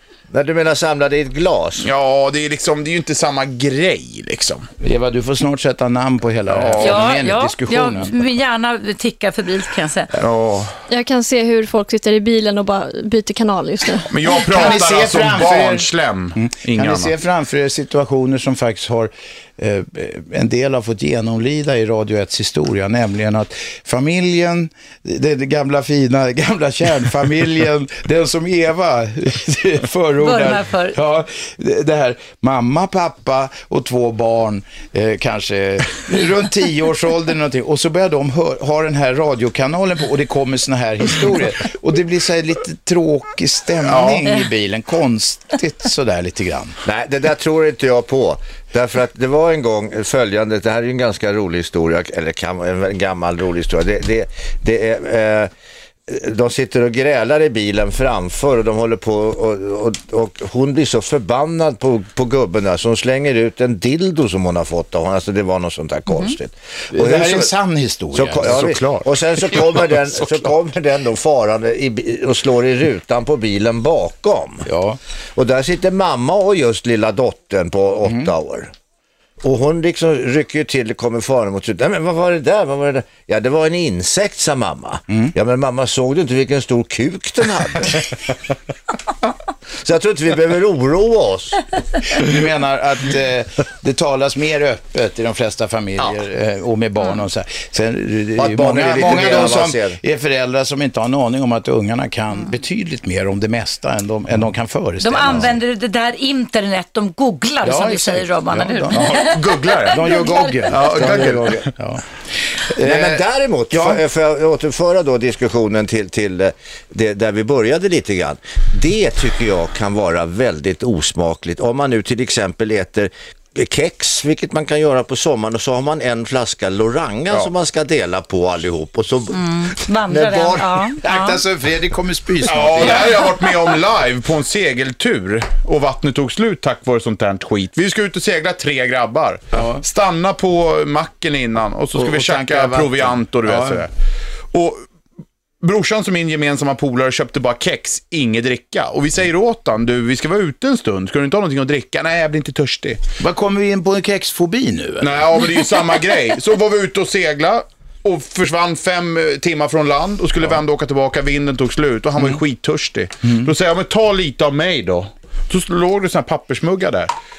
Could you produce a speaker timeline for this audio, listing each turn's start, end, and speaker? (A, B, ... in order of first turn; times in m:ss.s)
0:00.3-0:01.9 A
0:01.8-0:04.7 B
0:04.8-0:08.3 C
0:06.5-0:07.0 B
0:06.8-0:10.1 D
0:10.2-0:10.8 B
0:10.9-0:14.6 E
0:14.1-0:17.1 B
0:14.5-0:46.8 C
0:30.2-0:31.0 D
0:43.8-0:44.2 B
0:46.8-0:55.5 A
0:56.1-1:07.5 A
1:06.9-1:08.8 C
1:08.1-1:14.7 A
1:08.4-1:10.0 B
1:14.6-1:15.0 C
1:15.4-1:18.7 A
1:18.0-1:18.3 C
1:19.4-1:28.1 A
1:29.8-1:31.6 A
1:32.1-1:45.6 C
1:38.4-1:40.0 A
1:45.0-1:50.6 D
1:47.6-1:49.3 C
1:48.9-1:51.7 B
1:49.9-1:52.0 C
1:50.9-1:51.7 A
1:52.6-1:54.0 C
1:52.8-2:10.8 A
2:09.3-2:11.4 D
2:11.0-2:13.3 C
2:12.4-2:23.9 B
2:19.5-2:19.8 C
2:21.9-2:23.8 C
2:24.5-2:24.8 B
2:25.6-2:33.0 B
2:33.2-2:35.2 C
2:35.0-2:47.1 B
2:43.2-2:43.5 C